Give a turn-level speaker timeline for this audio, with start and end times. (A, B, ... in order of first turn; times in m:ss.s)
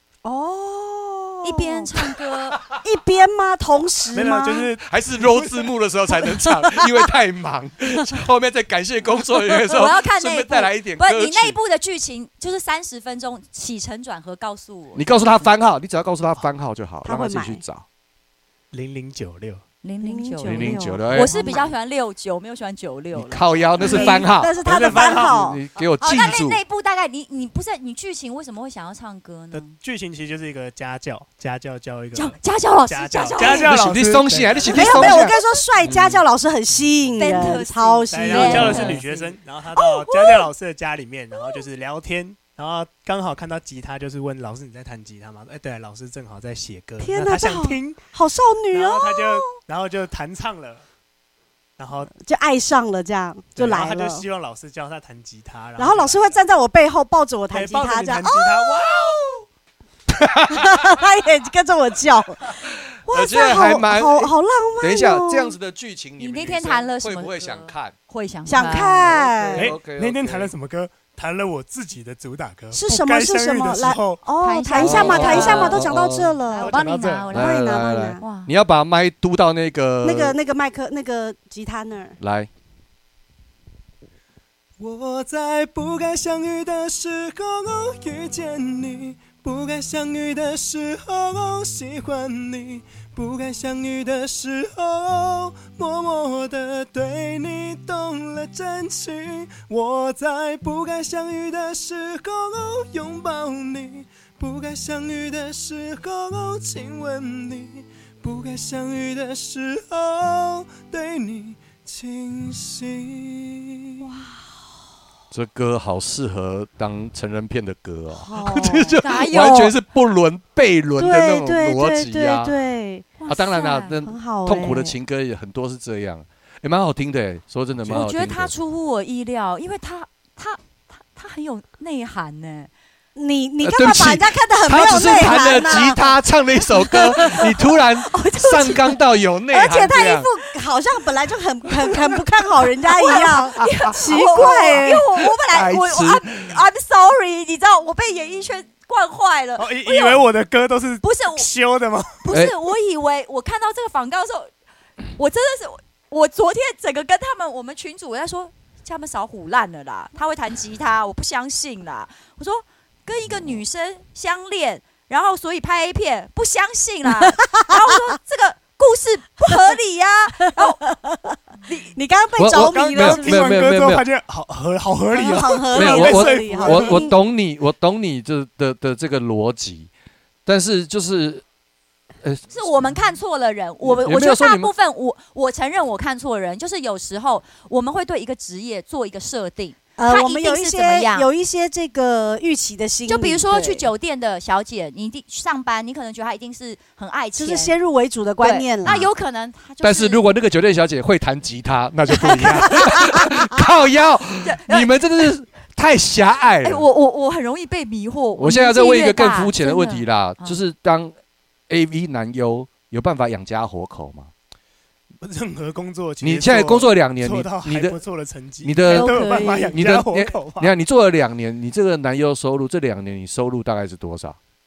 0:00.2-0:01.9 A
0:01.4-0:02.6 B
0:02.8-0:04.7 A
0:04.1-0:05.7 C
0:04.8-0:11.6 D
0:06.2-0:06.9 A
0:09.7-0:15.4 B
0:14.9-0:17.8 D
0:17.0-0:17.6 A
0:18.7-0:19.6 C
0:19.8-0:24.3 B
0:20.0-0:21.7 A
0:20.4-0:21.3 D
0:23.1-0:26.6 D
0:23.8-0:25.6 A
0:23.9-0:25.4 C
0:26.0-0:29.8 B
0:29.5-0:35.3 C
0:32.1-0:33.7 B
0:33.4-0:36.2 D
0:34.7-0:39.1 A
0:37.1-0:39.3 B
0:38.1-0:48.0 C
0:39.8-0:40.4 A
0:47.0-0:49.5 A
0:48.7-0:50.8 C
0:51.8-0:52.1 C
0:52.1-0:54.2 A
0:53.6-0:56.4 C
0:55.8-0:59.0 A
0:57.5-0:59.3 C
1:00.2-1:00.7 D
1:00.4-1:05.5 A
1:02.6-1:07.9 D
1:06.2-1:09.1 B
1:08.4-1:09.7 A
1:09.0-1:10.5 D
1:09.6-1:14.2 C
1:12.7-1:16.8 A
1:14.4-1:15.9 B
1:14.7-1:16.4 D
1:16.5-1:18.5 B
1:16.6-1:17.3 C
1:17.3-1:20.4 D
1:17.3-1:18.2 A
1:20.0-1:22.2 A
1:22.2-1:22.5 D
1:24.8-1:54.1 C
1:54.0-1:54.4 A
1:55.3-2:02.6 D
1:58.1-1:59.0 A
1:59.0-1:59.7 B
2:01.0-2:03.2 A
2:03.2-2:04.0 B
2:03.3-2:08.5 D
2:04.0-2:04.9 A
2:07.8-2:08.1 C
2:07.9-2:12.7 B
2:13.2-2:16.0 A
2:13.6-2:20.3 D
2:15.2-2:15.8 B
2:16.8-2:19.0 B
2:19.5-2:25.0 A
2:22.9-2:30.2 B
2:23.2-2:23.9 D
2:25.5-2:26.5 D
2:29.6-2:32.2 C
2:31.0-2:31.5 B
2:32.2-2:34.5 B
2:35.2-2:50.8 B
2:47.2-2:47.7 A
2:50.4-2:51.4 A
2:51.7-2:51.9 B
2:51.9-2:53.6 A
2:52.4-2:54.0 D
2:52.5-2:57.1 C
2:55.1-2:57.1 A
2:55.7-2:59.9 D
3:00.4-3:01.4 D
3:02.2-3:03.0 D
3:02.5-3:11.3 B
3:03.8-3:04.7 D
3:10.0-3:13.9 A
3:13.0-3:17.7 B
3:17.4-3:19.1 A
3:18.4-3:20.3 B
3:19.8-3:26.8 D
3:22.2-3:23.0 A
3:24.4-3:24.9 B
3:26.6-3:30.6 B
3:28.4-3:31.1 D
3:31.7-3:34.3 D
3:35.2-3:40.7 C
3:36.2-3:38.0 D
3:38.6-3:44.4 D
3:38.9-3:39.8 A